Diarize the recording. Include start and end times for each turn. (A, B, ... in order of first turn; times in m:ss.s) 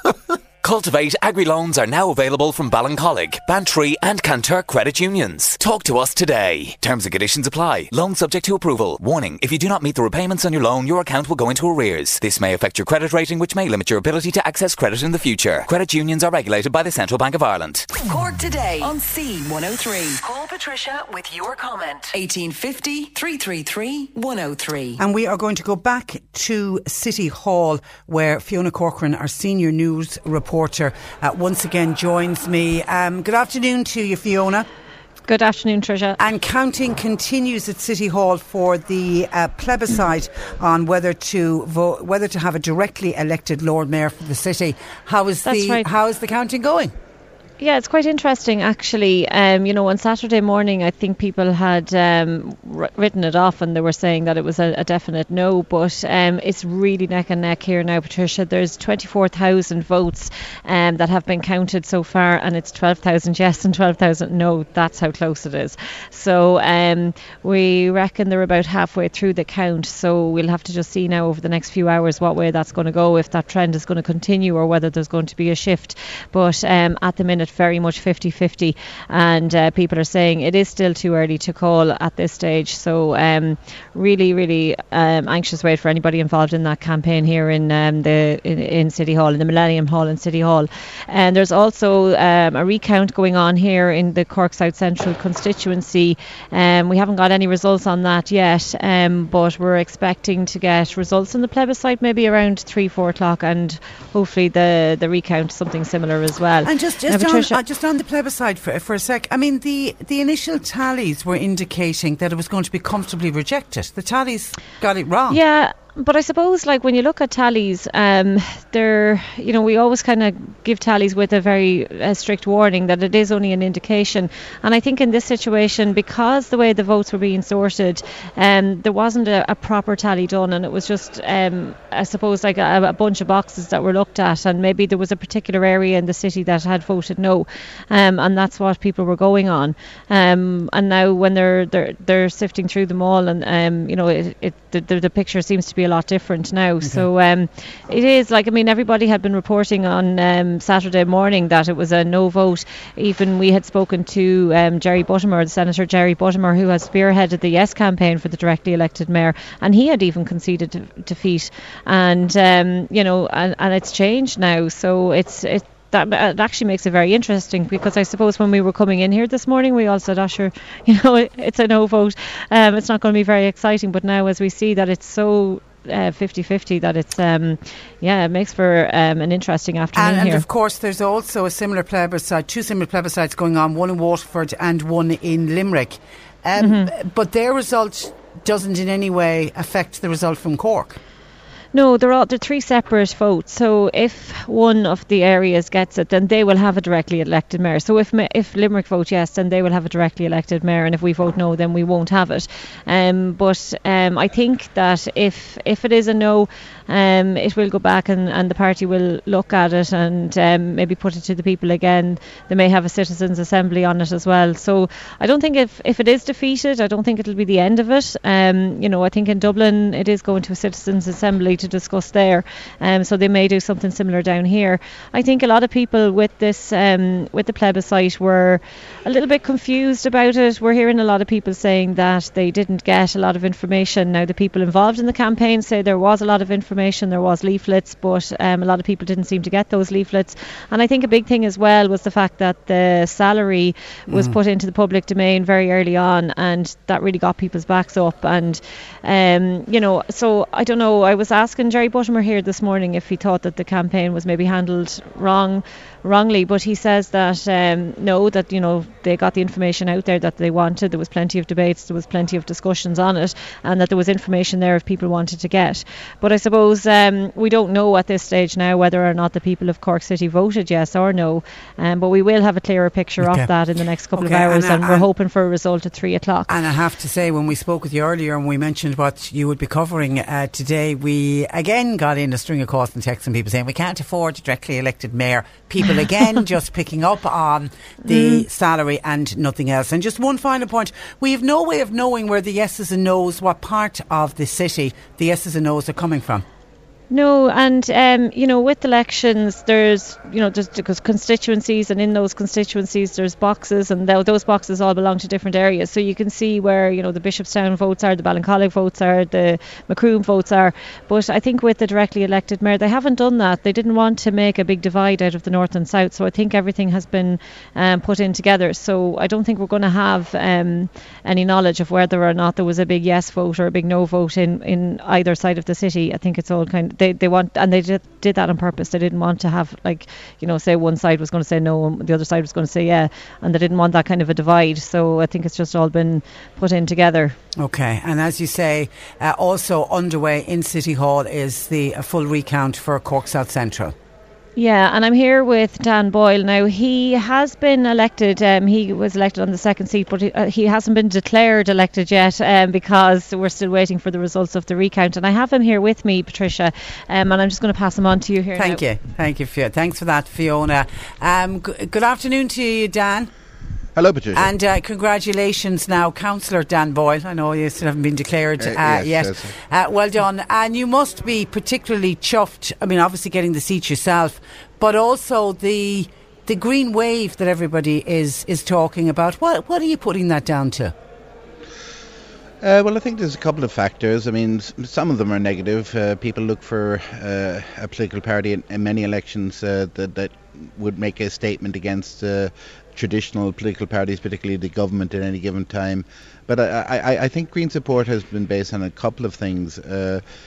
0:00.6-0:17.9 A
0:17.9-0:25.0 B
0:25.0-0:34.7 C
0:35.3-0:36.2 D
0:36.2-0:47.0 C
0:45.4-0:45.9 D
0:47.6-1:47.6 D
1:46.6-1:55.4 C
1:55.3-3:00.5 D
2:26.8-2:27.1 C
3:00.0-3:11.0 C
3:06.6-3:06.9 D
3:11.7-4:36.5 D
4:04.1-4:04.4 C
4:33.2-4:33.5 C
4:34.1-4:35.1 C
4:36.5-4:56.4 C
4:48.1-4:48.4 D
4:57.1-5:37.4 D
5:37.6-5:44.0 C
5:44.6-5:58.8 D
5:58.6-6:03.3 C
6:04.0-6:04.5 E
6:04.3-6:20.9 C
6:08.6-6:09.5 E
6:22.6-6:40.2 E